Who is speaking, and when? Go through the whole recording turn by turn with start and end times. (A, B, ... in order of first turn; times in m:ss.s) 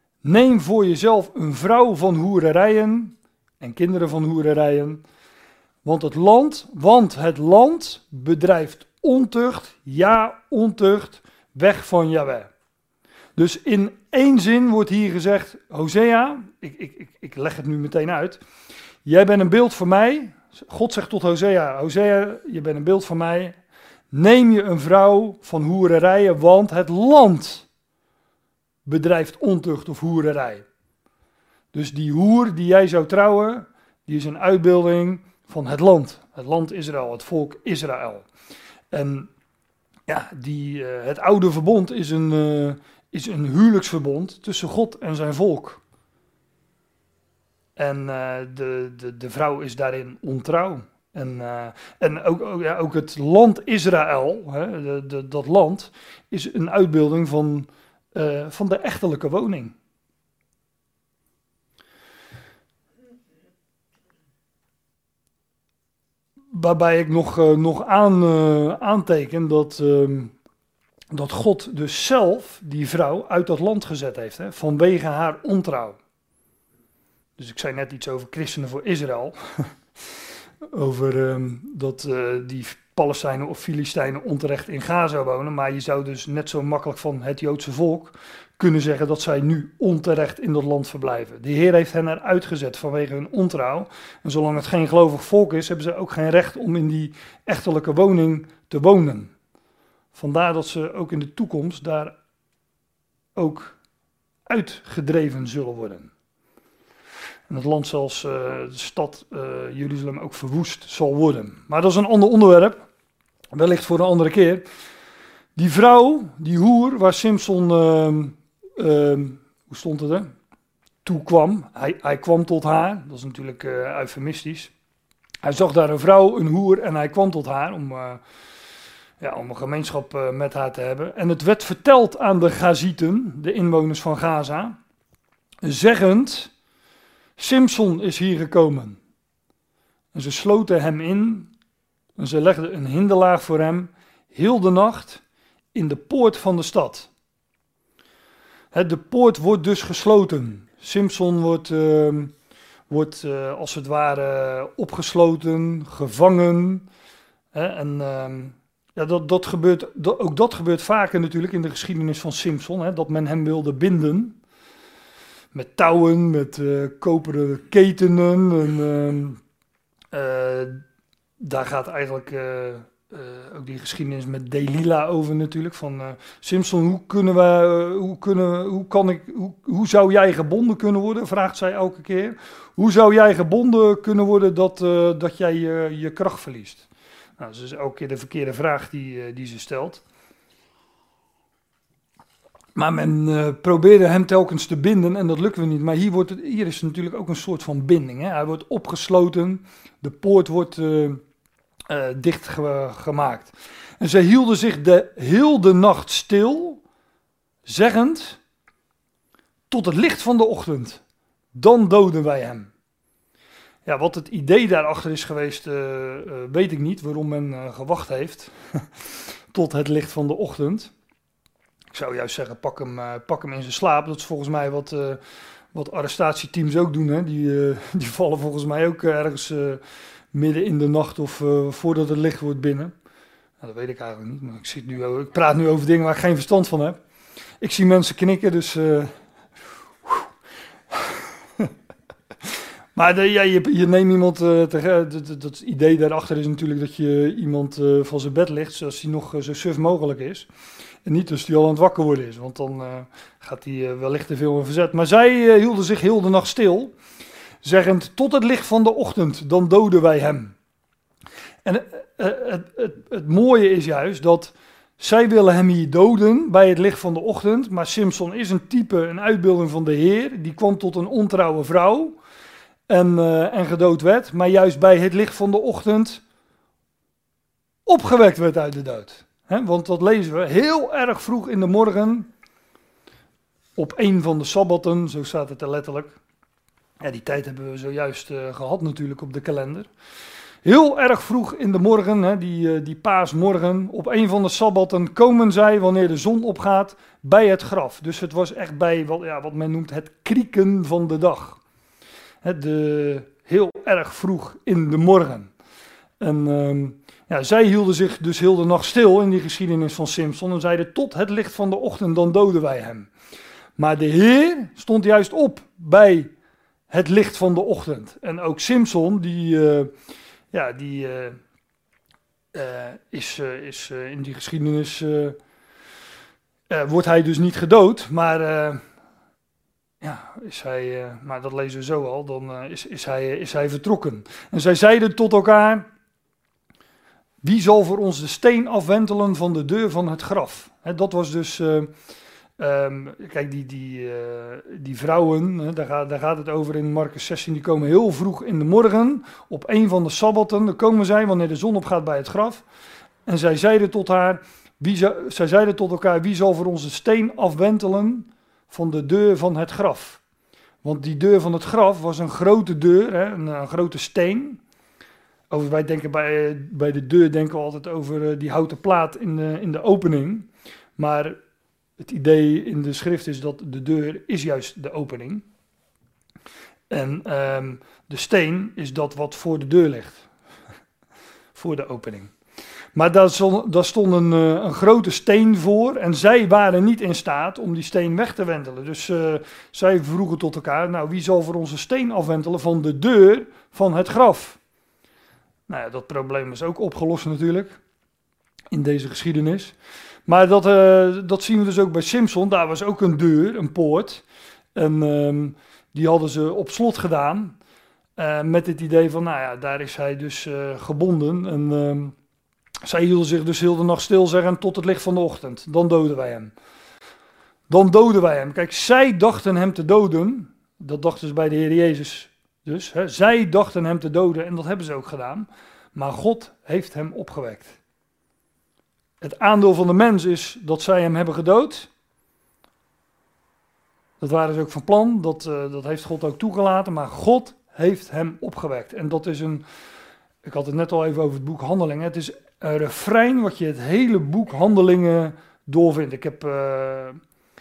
0:00.2-0:05.0 A
0:05.8-0:12.5 A
0:13.4-0:18.4 A
0:19.0-0:23.6 A
0:24.1-0:27.7 A
0:28.8-0:30.6 A
0:31.7-0:38.3 A
0:38.9-0:39.3 A
0:40.1-0:45.8 A
0:47.8-0:59.8 A
1:06.5-1:10.3 A
1:11.1-1:16.0 A
1:17.4-1:19.7 A
1:20.7-1:39.3 A
1:40.1-1:42.2 A
1:43.4-1:43.8 A
1:44.5-1:46.1 A
1:47.5-1:52.9 A
1:53.5-1:54.6 A
1:55.6-2:00.3 A
2:01.0-2:04.7 A
2:05.4-2:08.2 A
2:09.2-2:14.8 A
2:15.6-2:16.5 A
2:17.4-2:19.0 A
2:20.1-2:21.5 A
2:22.2-2:25.2 A
2:25.7-2:27.1 A
2:28.7-2:32.3 A
2:32.9-2:36.9 A
2:37.5-2:44.4 A
2:45.5-2:49.4 A
2:50.1-2:50.8 A
2:51.4-3:06.9 A
3:07.4-3:10.0 A
3:12.8-3:21.2 A
3:21.9-3:26.8 A
3:27.7-3:28.4 A
3:29.7-3:31.0 A
3:31.5-3:32.7 A
3:33.8-3:40.9 A
3:41.9-3:45.2 A
3:45.7-3:49.8 A
3:50.3-3:52.9 A
3:53.6-3:57.0 A
3:57.6-3:59.1 A
4:00.9-4:01.7 A
4:03.0-4:10.5 A
4:11.0-4:17.0 A
4:17.6-4:20.6 A
4:21.6-4:32.2 A
4:32.9-4:36.2 A
4:37.9-4:42.3 A
4:43.8-4:46.2 A
4:47.0-4:49.9 A
4:50.6-5:01.6 A
5:02.4-5:05.5 A
5:06.2-5:13.1 A
5:13.8-5:16.3 A
5:16.9-5:19.9 A
5:20.5-5:21.4 A
5:22.5-5:25.4 A
5:26.7-5:28.8 A
5:30.0-5:35.9 A
5:37.4-5:41.9 A
5:42.6-5:52.6 A
5:53.3-6:00.2 A
6:00.8-6:04.6 A
6:05.5-6:11.4 A
6:12.0-6:15.4 A
6:16.9-6:20.3 A
6:21.6-6:22.3 A
6:22.9-6:34.6 A
6:35.7-6:37.8 A
6:38.7-6:39.8 A
6:40.3-6:44.2 A
6:44.8-6:47.6 A
6:48.2-6:52.2 A
6:52.8-6:56.5 A
6:57.7-7:07.8 A
7:09.2-7:11.9 A
7:14.2-7:19.6 A
7:20.4-7:27.2 A